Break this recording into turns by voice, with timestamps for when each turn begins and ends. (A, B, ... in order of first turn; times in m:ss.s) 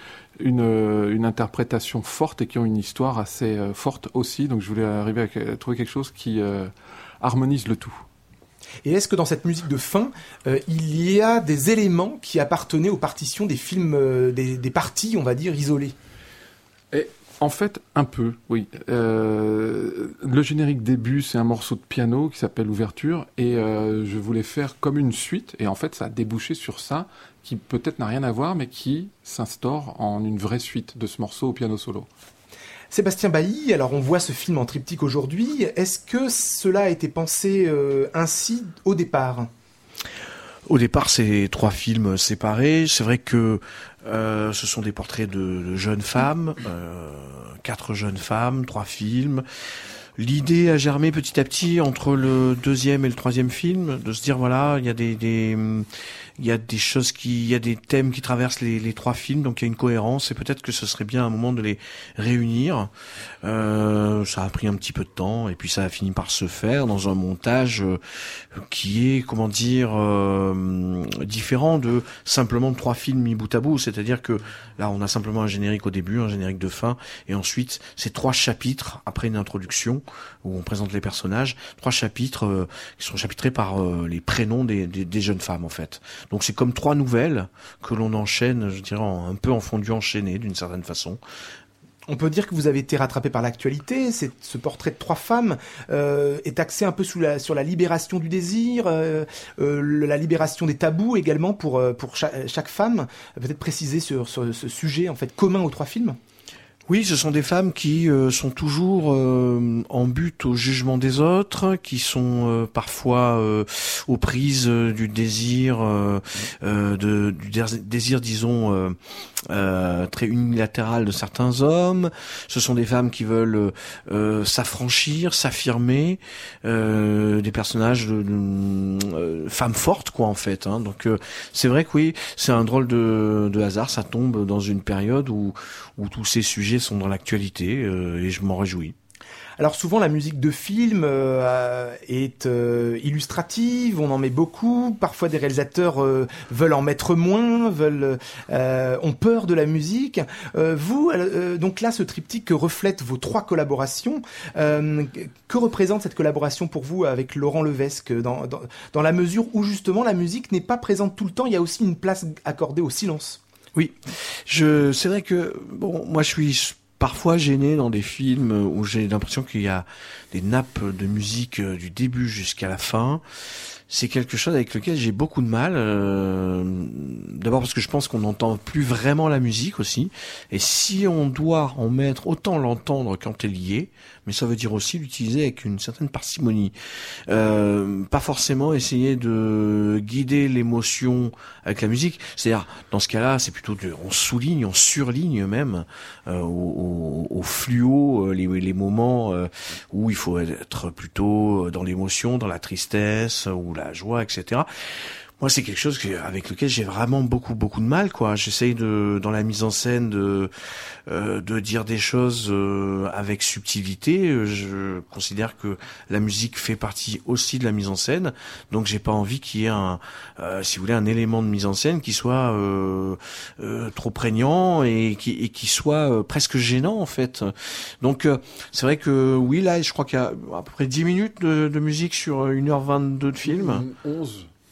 0:00.4-0:08.0 A
0:08.8-0:15.9 B
0:16.9-0:32.1 A
0:32.9-0:39.5 B
0:40.6-0:49.4 C
0:50.2-0:55.9 C
0:56.4-1:02.9 C
1:03.4-1:08.0 C
1:08.5-1:31.2 C
1:32.1-1:46.2 B
1:46.9-2:18.9 C
2:19.6-2:43.4 B
2:43.8-2:53.2 C
2:53.9-3:06.7 C
3:07.3-3:24.7 C
3:25.4-3:30.5 C
3:31.1-3:53.9 C
3:53.5-3:54.5 A